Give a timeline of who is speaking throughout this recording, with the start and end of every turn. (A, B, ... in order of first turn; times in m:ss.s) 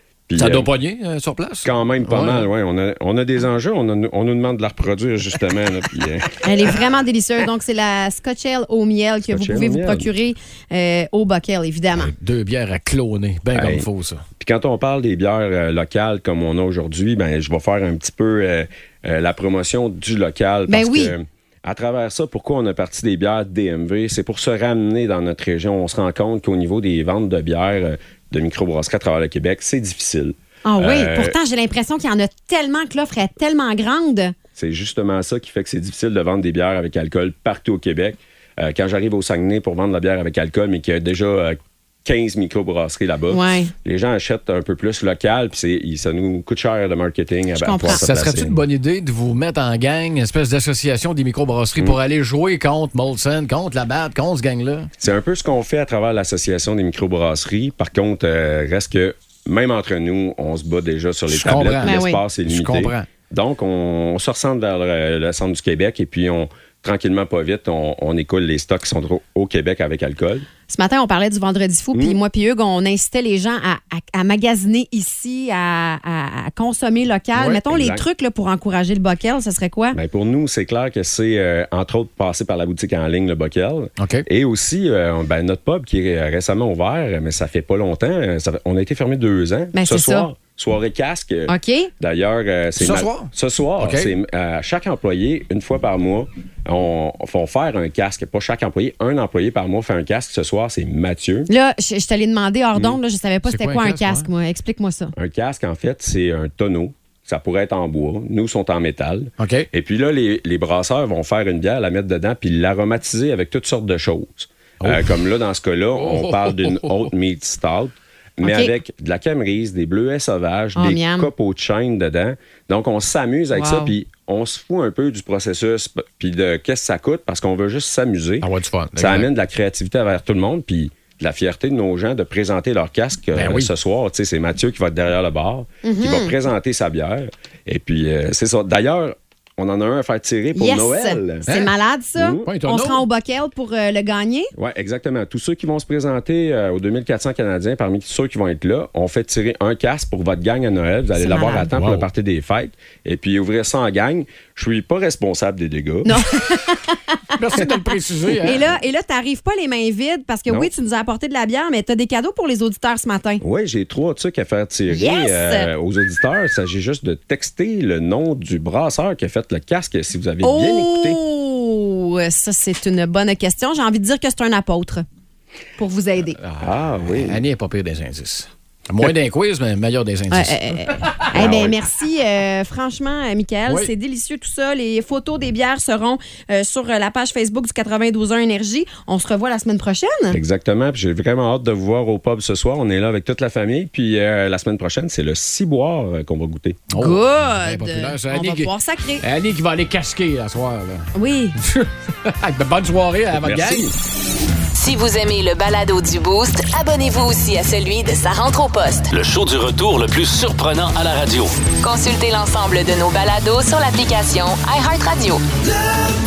0:00.3-0:00.7 A
0:00.4-0:02.5 B
0:01.6-0:06.4 A
0:06.4-0:12.1 C
0:09.3-0:10.1 A
0:11.9-0:14.2 B
0:13.5-0:13.9 A
0:14.4-0:31.3 A
0:20.7-0:21.1 C
0:30.6-0:34.4 C
0:34.6-0:48.6 A
0:43.3-0:43.7 C
0:47.6-0:48.0 C
0:47.9-0:54.9 B
0:55.0-1:10.5 A
1:01.3-1:03.1 B
1:01.8-1:02.2 C
1:10.7-1:20.0 C
1:17.4-1:18.0 A
1:19.9-1:41.5 A
1:24.0-1:24.3 B
1:29.7-1:30.3 C
1:31.5-1:31.9 C
1:32.8-1:34.1 B
1:41.5-1:45.1 C
1:43.4-1:44.3 B
1:45.2-2:21.5 A
1:49.4-1:49.7 B
1:54.8-1:55.3 B
1:56.0-1:57.1 B
1:58.4-1:58.7 C
2:00.8-2:01.3 C
2:03.5-2:03.9 C
2:08.4-2:09.3 B
2:13.3-2:13.7 B
2:15.8-2:16.3 C
2:20.6-2:24.5 C
2:21.5-2:21.7 B
2:22.2-2:22.5 A
2:22.4-2:23.0 B
2:24.6-2:36.2 A
2:31.2-2:31.7 C
2:31.7-2:32.1 B
2:36.0-2:37.8 C
2:37.4-2:38.6 B
2:38.4-2:43.4 C
2:43.4-2:51.2 A
2:44.9-2:45.7 C
2:50.4-2:55.0 C
2:55.8-2:56.4 C
2:56.4-3:01.5 B
2:56.6-2:57.4 A
3:00.3-3:10.4 C
3:01.3-3:01.8 A
3:03.7-3:03.9 B
3:10.3-3:16.8 A
3:16.9-3:23.9 B
3:17.0-3:19.2 C
3:21.2-3:21.6 C
3:23.4-3:24.0 A
3:24.7-3:29.1 D
3:29.1-3:31.6 E
3:31.8-3:35.4 D